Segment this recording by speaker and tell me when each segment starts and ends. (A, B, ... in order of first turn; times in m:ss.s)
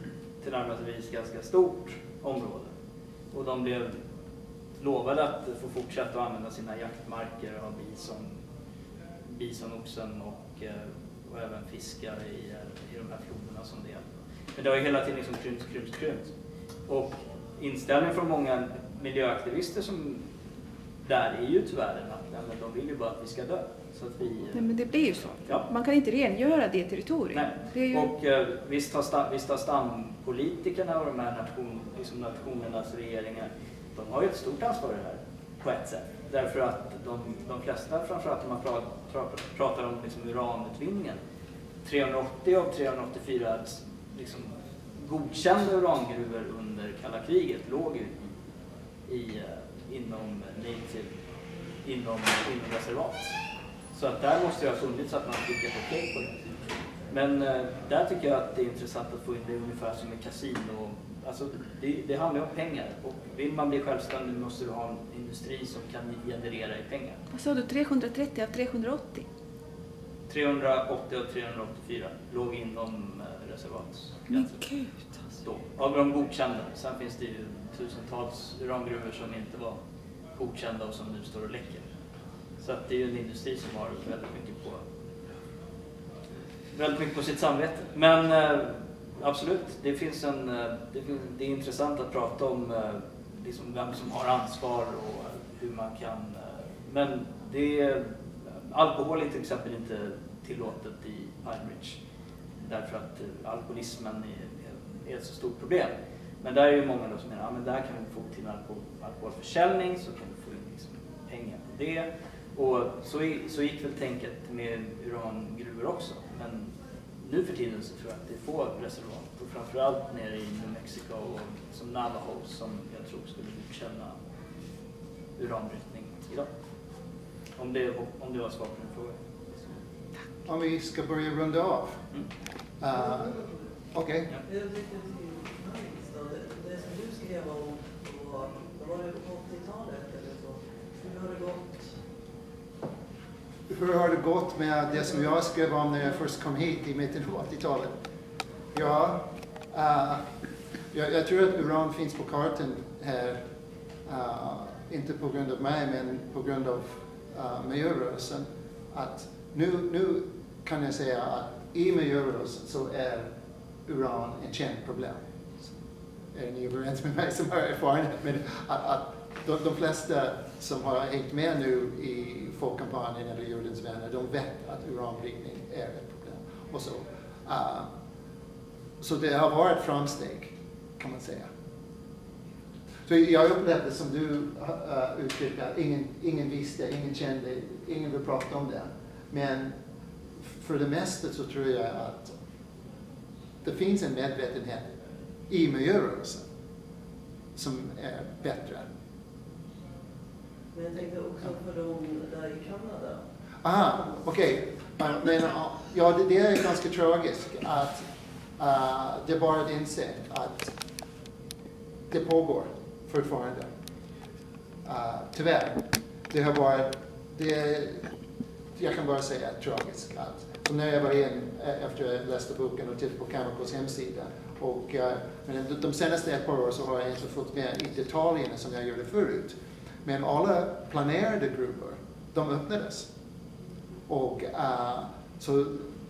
0:00.4-0:02.7 A
0:03.3-0:04.0 A
0:04.8-0:08.4 A
0:09.2-0:16.3 A
0:16.9-0:20.3 A
0:21.0-0:24.6 A
0:24.5-0:28.1 B
0:27.3-0:41.2 A
0:41.8-0:48.4 A
0:49.1-0:51.1 A
0:51.8-0:53.4 A
0:53.9-1:07.2 A
1:07.3-1:09.3 B
1:10.3-1:14.6 A
1:14.3-1:15.0 B
1:15.4-1:19.8 A
1:20.4-1:21.9 A
1:22.6-1:24.8 A
1:26.7-1:42.0 A
1:42.6-2:04.2 A
2:05.4-2:06.5 A
2:07.6-2:09.2 A
2:10.5-2:12.0 C
2:12.8-2:13.4 C
2:12.9-2:13.7 D
2:13.9-2:14.3 C
2:14.5-2:21.9 D
2:23.7-2:27.9 C
2:28.7-2:30.3 C
2:30.9-2:33.4 C
2:34.1-2:43.3 C
2:43.9-2:45.2 C
2:46.3-2:57.9 C
2:59.0-3:01.5 C
3:03.1-3:09.8 C
3:10.4-3:12.4 C
3:13.6-3:14.9 C
3:15.5-3:16.4 C
3:17.6-3:18.9 C
3:20.7-3:23.2 D
3:23.6-3:28.1 C
3:28.6-3:30.7 C
3:32.1-3:33.7 C
3:34.8-3:38.0 C
3:38.8-3:53.1 C
3:54.1-3:55.9 C